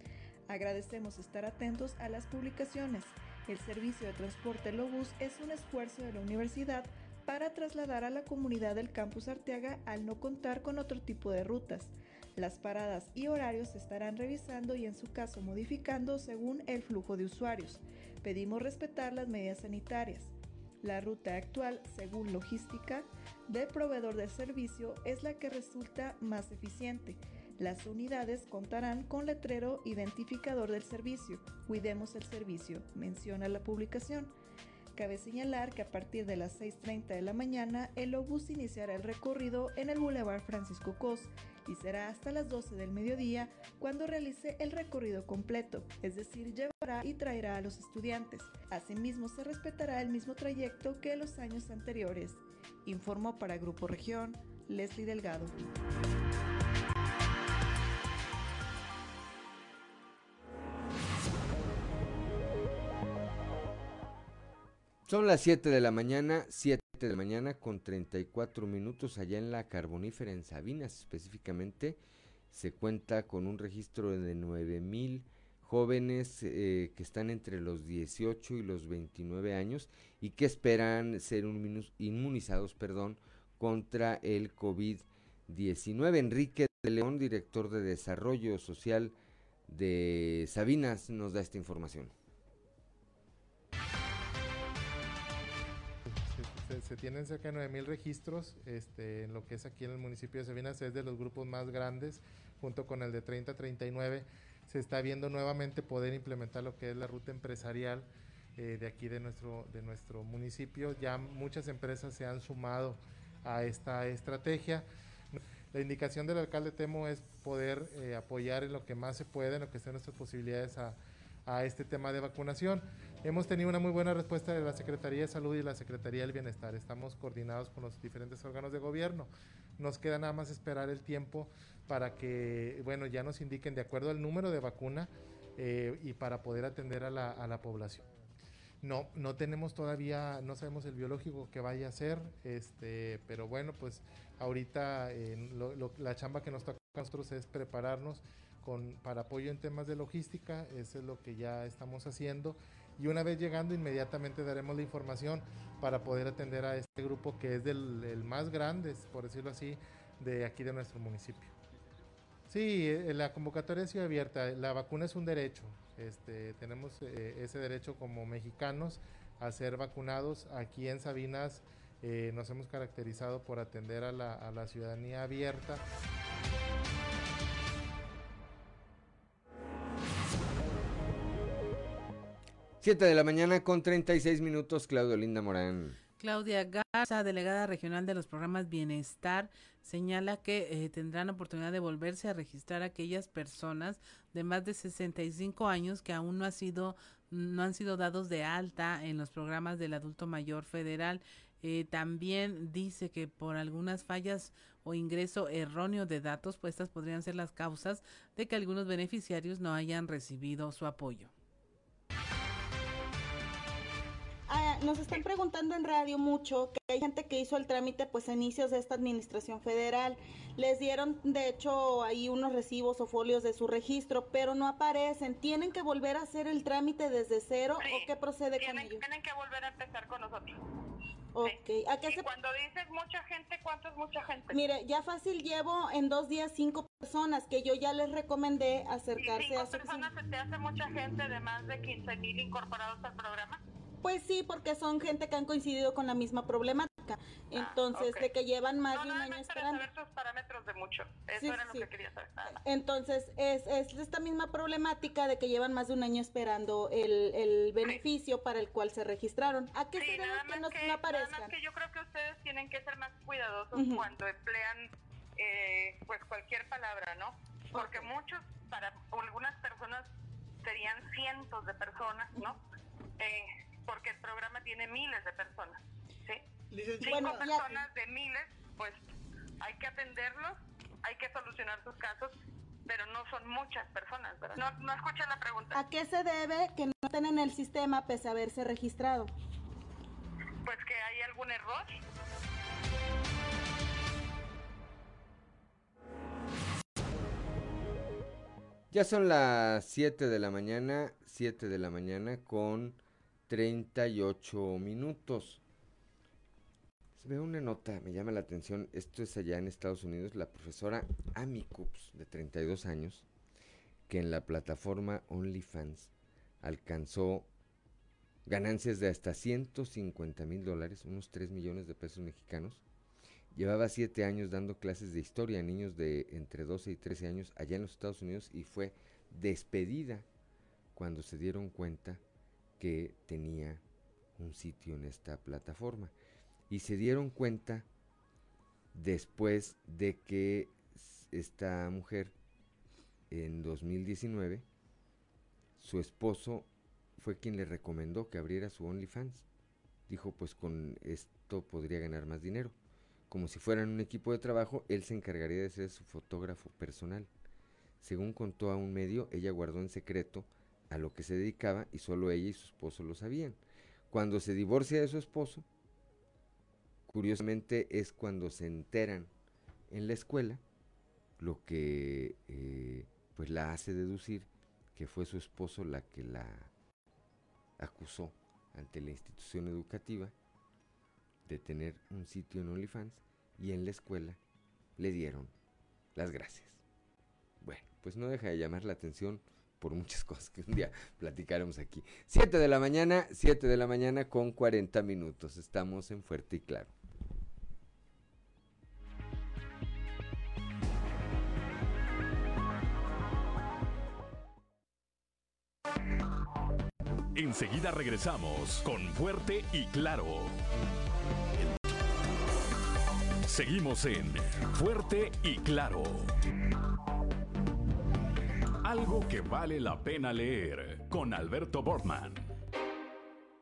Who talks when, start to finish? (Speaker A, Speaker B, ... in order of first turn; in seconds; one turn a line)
Speaker A: 0.5-34.3
Speaker A: 35.0-55.5
Speaker B: 65.1-72.0
Speaker B: 72.5-89.1
Speaker B: 89.7-92.1
Speaker C: 96.1-114.8
Speaker C: 115.7-138.0
Speaker C: 138.8-161.5
Speaker C: 162.5-175.8
Speaker B: 182.8-186.0
Speaker D: 186.2-211.3
Speaker E: 214.5-229.1
Speaker F: 227.8-230.6
Speaker E: 231.3-232.3
Speaker F: 232.1-234.6
Speaker E: 234.5-240.1
Speaker F: 239.2-243.6
Speaker E: 244.0-249.9
Speaker F: 247.6-248.3
Speaker F: 248.9-252.5
Speaker E: 251.4-251.9
Speaker E: 252.5-261.6
Speaker F: 260.0-270.1
Speaker E: 263.7-264.1
Speaker E: 267.7-268.1
Speaker F: 270.6-272.6
Speaker F: 273.2-276.4
Speaker E: 277.0-277.8
Speaker F: 277.0-279.0
Speaker F: 279.6-282.4
Speaker F: 282.9-285.8
Speaker E: 285.7-289.3
Speaker F: 290.6-291.9
Speaker B: 298.9-305.6
Speaker B: 307.2-313.3
Speaker B: 314.1-317.5
Speaker B: 318.5-322.8
Speaker B: 323.5-330.3
Speaker B: 330.9-332.2
Speaker B: 332.8-333.8
Speaker B: 334.4-336.1
Speaker B: 336.7-337.9
Speaker B: 338.9-342.3
Speaker B: 343.3-344.6
Speaker B: 345.8-349.5
Speaker B: 350.1-352.8
Speaker B: 353.3-357.3
Speaker B: 358.0-363.6
Speaker B: 364.1-365.6
Speaker B: 367.1-369.3
Speaker B: 369.9-370.6
Speaker B: 371.4-376.7
Speaker B: 377.8-380.3
Speaker B: 381.5-384.4
Speaker B: 385.0-385.5
Speaker B: 386.1-386.8
Speaker B: 387.6-396.9
Speaker G: 407.3-410.6
Speaker G: 413.5-416.3
Speaker G: 418.8-422.4